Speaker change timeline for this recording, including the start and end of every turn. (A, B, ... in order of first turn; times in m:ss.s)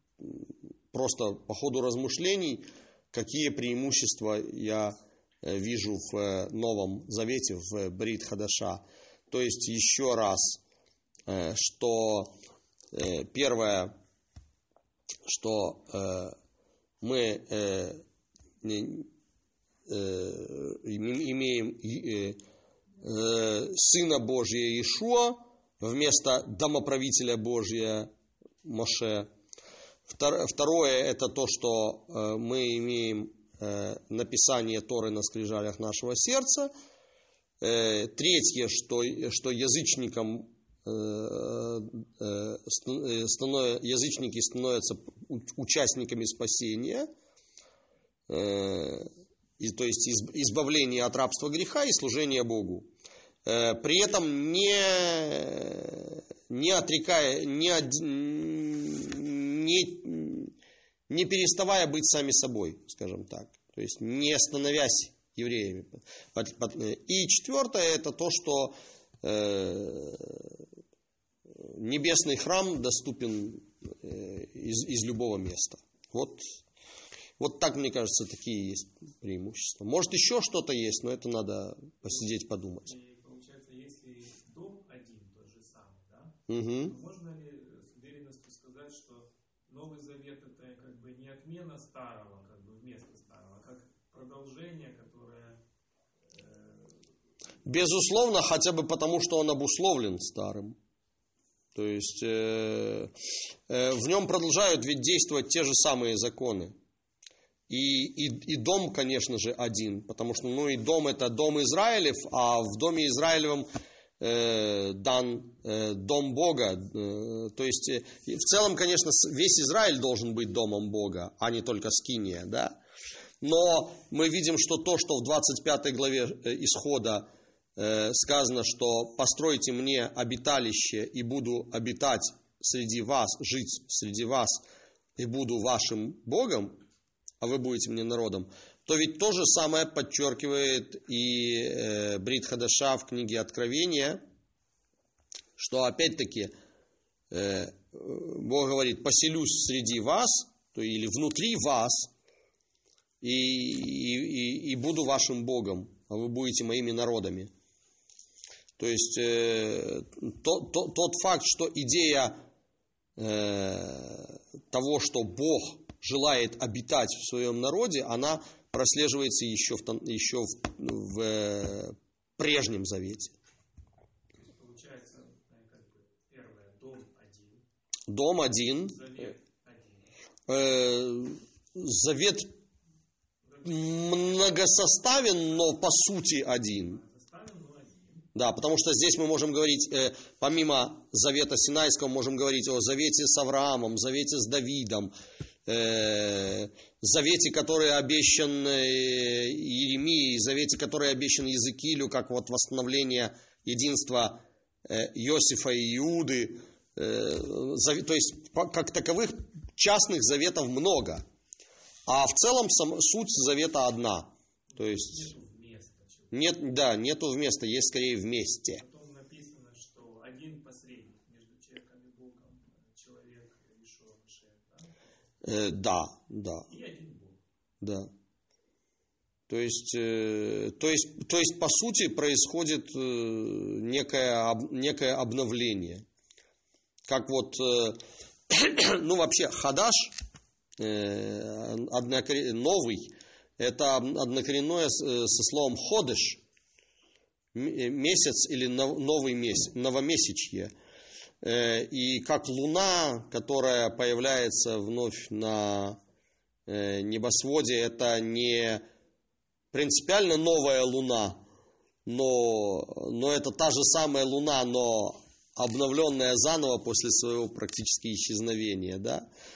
0:00.2-0:10.6 A
0:11.3-0:12.3 A
0:12.9-0:13.9 A
0:15.2-0:16.4 A
0:17.0-0:18.0 A
0:18.6-0:19.1 A
0:19.9-0:22.4 A
0:23.0-0:28.1 A
0:28.6-0:29.3 A
0:30.1-0:36.7 A
0:37.6-0:47.1 A
0:48.3-0:49.1 A
0:49.6-0:52.9 A
0:53.4-1:00.5 A
1:01.1-1:10.6 A
1:11.6-1:16.4 A
1:17.4-1:22.9 A
1:22.8-1:35.6 B
1:26.5-1:26.9 A
1:36.3-1:36.9 B
1:37.6-1:40.8 A
1:41.7-1:43.1 A
1:43.7-1:46.7 A
1:47.7-1:53.7 A
1:54.2-2:02.8 A
2:03.4-2:14.6 A
2:15.2-2:16.8 A
2:17.4-2:24.2 A
2:25.6-2:26.5 A
2:27.3-2:32.1 A
2:33.2-2:37.5 A
2:38.8-2:42.4 A
2:43.2-2:53.4 A
2:54.4-2:57.6 B
2:58.1-2:59.0 A
2:58.8-3:00.1 B
3:00.5-3:02.5 A
3:03.4-3:04.4 B
3:03.6-3:07.0 A
3:06.8-3:08.3 B
3:08.3-3:15.1 A
3:15.7-3:31.2 A
3:32.1-3:35.3 A
3:34.7-3:36.3 B
3:36.3-3:38.8 A
3:38.7-3:44.9 B
3:45.4-3:46.7 A
3:46.7-3:47.4 B
3:47.8-3:48.1 A
3:49.5-3:56.0 A
3:57.1-4:00.2 A
4:00.8-4:06.4 A
4:07.5-4:10.7 A
4:11.4-4:16.0 A
4:16.7-4:18.8 A
4:19.7-4:21.4 A
4:22.0-4:29.2 A